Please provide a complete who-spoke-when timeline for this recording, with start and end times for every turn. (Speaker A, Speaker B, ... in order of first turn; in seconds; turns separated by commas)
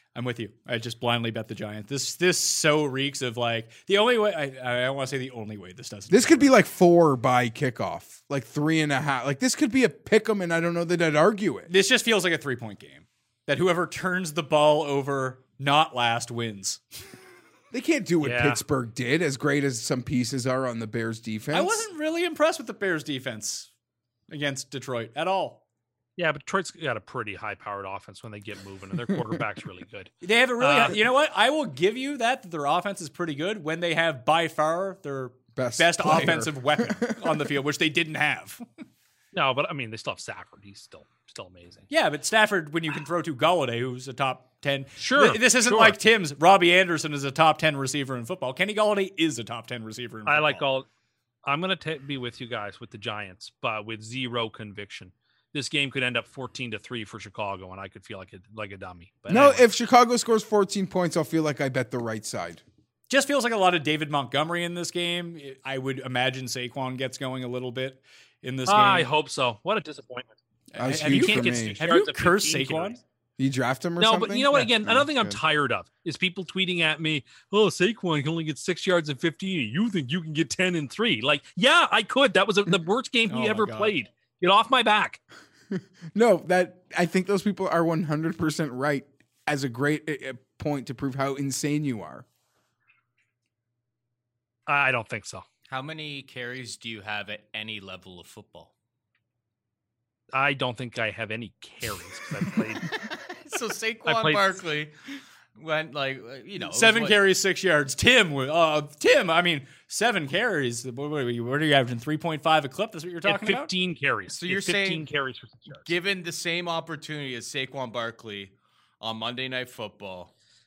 Speaker A: 0.1-6.5, Speaker B: 6.1-11.7, Speaker A: 11.7-16.8, Speaker B: 17.7-21.9, Speaker C: 18.2-18.6, Speaker A: 21.5-23.7, Speaker A: 24.3-25.6, Speaker C: 26.2-31.0, Speaker A: 30.2-38.6, Speaker B: 35.5-37.5, Speaker C: 39.3-41.9, Speaker A: 41.9-50.6, Speaker C: 45.0-46.0, Speaker C: 50.2-50.9, Speaker C: 51.4-59.7, Speaker B: 59.3-62.6, Speaker A: 63.1-69.1, Speaker C: 68.7-70.3, Speaker A: 70.7-73.0, Speaker B: 70.8-71.8, Speaker C: 70.9-73.0, Speaker B: 73.4-75.4, Speaker C: 74.0-85.2, Speaker A: 83.3-83.9, Speaker B: 85.7-92.2, Speaker C: 94.7-95.4, Speaker D: 95.7-98.7, Speaker C: 100.3-102.8, Speaker D: 103.3-104.9, Speaker C: 104.0-104.5, Speaker D: 105.5-107.2, Speaker A: 106.6-113.7, Speaker C: 113.2-115.9, Speaker D: 114.3-115.1, Speaker D: 115.7-120.3